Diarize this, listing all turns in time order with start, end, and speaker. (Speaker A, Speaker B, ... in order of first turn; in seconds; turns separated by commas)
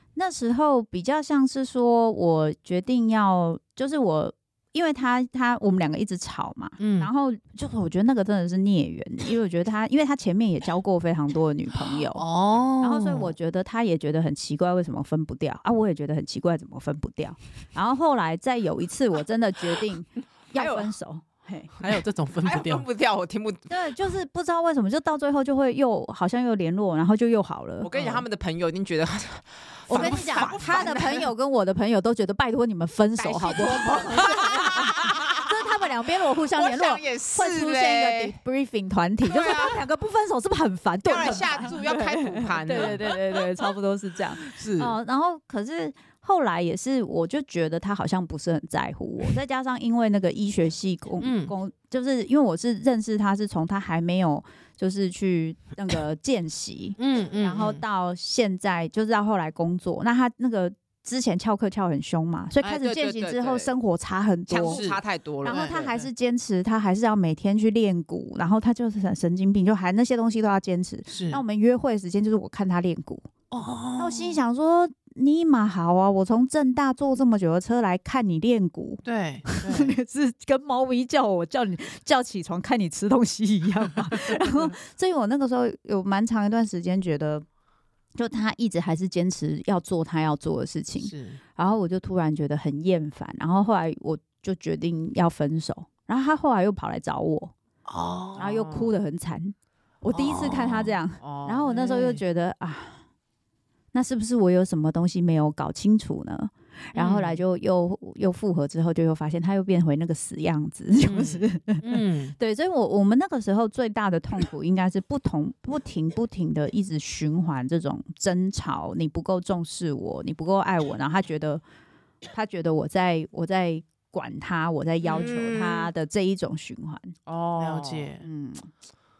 Speaker A: 0.1-12.2, Speaker B: 6.8-7.1, Speaker B: 12.1-13.3, Speaker A: 12.8-21.7, Speaker C: 20.5-20.9, Speaker B: 21.8-22.9, Speaker C: 22.4-23.7, Speaker A: 23.7-27.9, Speaker C: 27.8-31.3, Speaker B: 27.9-28.2, Speaker B: 29.9-31.2, Speaker A: 29.9-64.8, Speaker C: 33.2-35.5, Speaker C: 36.5-38.4, Speaker C: 39.2-39.8, Speaker C: 41.0-43.1, Speaker B: 44.5-44.9, Speaker B: 51.2-51.5, Speaker B: 57.0-57.8, Speaker C: 62.6-63.7, Speaker C: 64.5-66.0, Speaker B: 64.7-66.0, Speaker A: 65.4-73.3, Speaker B: 71.1-71.4, Speaker B: 73.5-74.4, Speaker A: 74.0-87.4, Speaker B: 79.0-79.9, Speaker A: 88.2-97.5, Speaker B: 91.0-91.4, Speaker B: 97.9-98.5, Speaker C: 98.3-98.9, Speaker A: 98.4-103.0, Speaker B: 100.1-101.0, Speaker C: 101.2-101.7, Speaker B: 101.7-102.2, Speaker A: 103.9-121.6, Speaker B: 106.9-107.4, Speaker B: 111.0-112.3, Speaker A: 122.3-127.2, Speaker C: 125.1-125.9, Speaker C: 127.3-128.1, Speaker B: 127.6-128.2, Speaker A: 128.2-128.7